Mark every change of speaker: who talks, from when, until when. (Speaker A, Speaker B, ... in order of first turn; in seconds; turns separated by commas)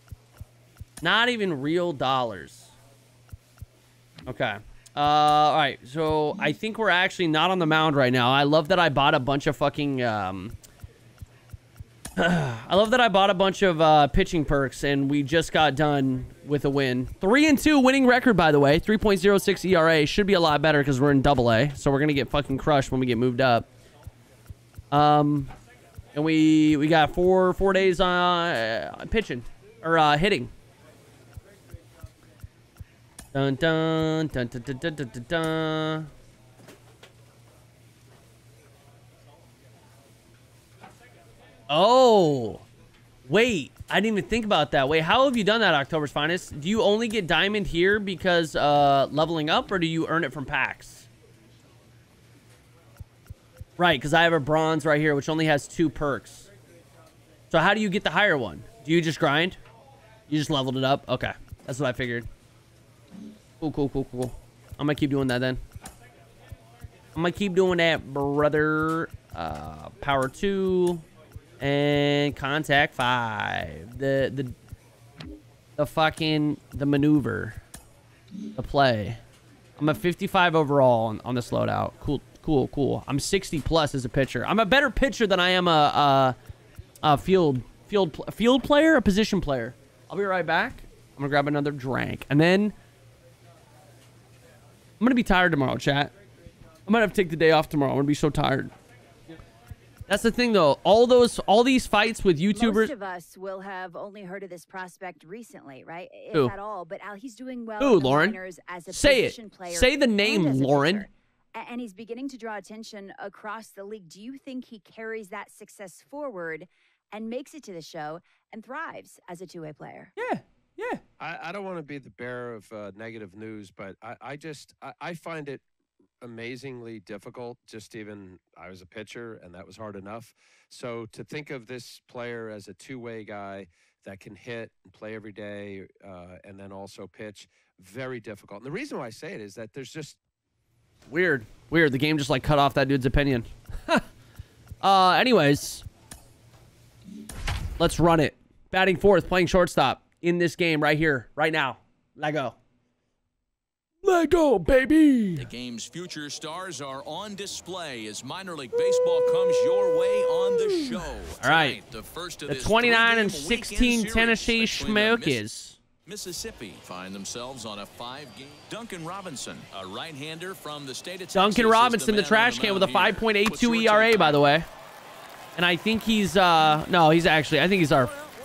Speaker A: 1.0-2.7, Speaker A: 4.3-10.6, Speaker A: 12.2-23.7, Speaker A: 24.9-25.5, Speaker A: 26.1-30.5, Speaker A: 33.3-36.1, Speaker A: 41.7-42.6, Speaker A: 43.2-51.1, Speaker A: 53.8-56.5, Speaker A: 57.5-59.6, Speaker A: 60.3-62.3, Speaker A: 63.6-65.6, Speaker A: 67.1-71.0, Speaker A: 71.6-74.5, Speaker A: 75.8-77.6, Speaker A: 78.5-79.2, Speaker A: 79.8-86.3, Speaker A: 87.0-92.7, Speaker A: 95.0-96.1, Speaker A: 96.9-98.7, Speaker A: 100.1-102.9, Speaker B: 102.5-120.1, Speaker A: 107.8-111.0, Speaker A: 120.2-121.0, Speaker C: 121.2-125.6, Speaker C: 126.2-140.2, Speaker A: 141.1-144.0, Speaker A: 144.8-145.8, Speaker A: 147.8-152.6, Speaker A: 154.0-155.5, Speaker D: 155.3-165.4, Speaker A: 158.7-161.8, Speaker A: 162.5-165.8, Speaker D: 166.0-174.5, Speaker A: 171.3-174.7, Speaker A: 175.6-178.2